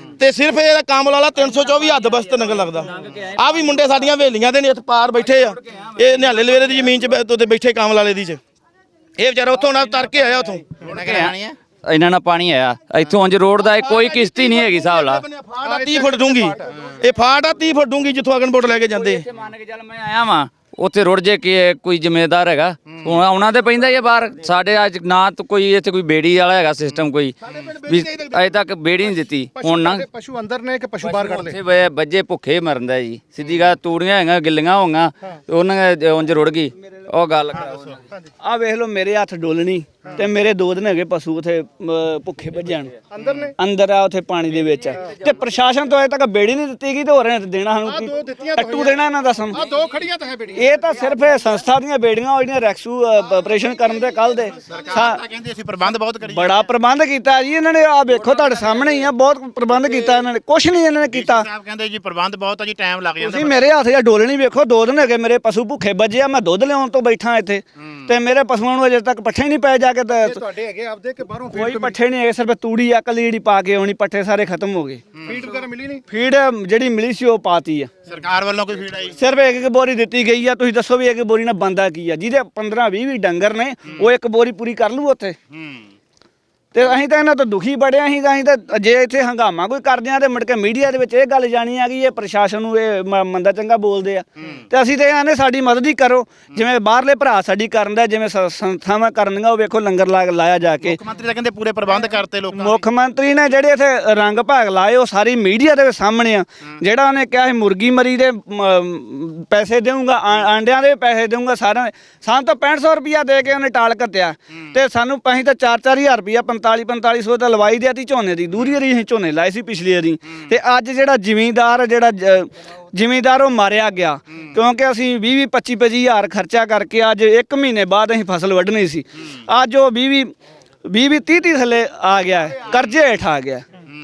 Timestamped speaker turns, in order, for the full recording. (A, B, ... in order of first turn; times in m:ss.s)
0:00.2-0:08.4 A
0:09.2-0:10.8 A
0:10.8-0:11.6 B
0:10.8-0:15.2 C
0:13.6-0:19.3 A
0:15.6-0:16.5 D
0:18.9-0:30.1 C
0:27.5-0:28.4 A
0:29.6-0:31.6 D
0:31.0-0:38.0 C
0:38.4-0:42.9 E
0:43.1-0:43.5 D
0:43.6-0:49.6 E
0:47.8-0:50.8 D
0:50.5-0:55.2 E
0:54.7-0:56.6 B
0:56.3-1:01.4 E
1:01.1-1:03.7 B
1:03.2-1:10.4 E
1:10.1-1:12.0 D
1:11.5-1:15.1 E
1:15.2-1:15.5 B
1:15.2-1:16.0 D
1:16.1-1:17.9 E
1:18.1-1:19.2 B
1:19.2-1:25.4 E
1:25.5-1:25.8 B
1:26.7-1:41.0 E
1:40.8-1:42.9 B
1:42.5-2:10.3 E
2:10.8-2:13.6 E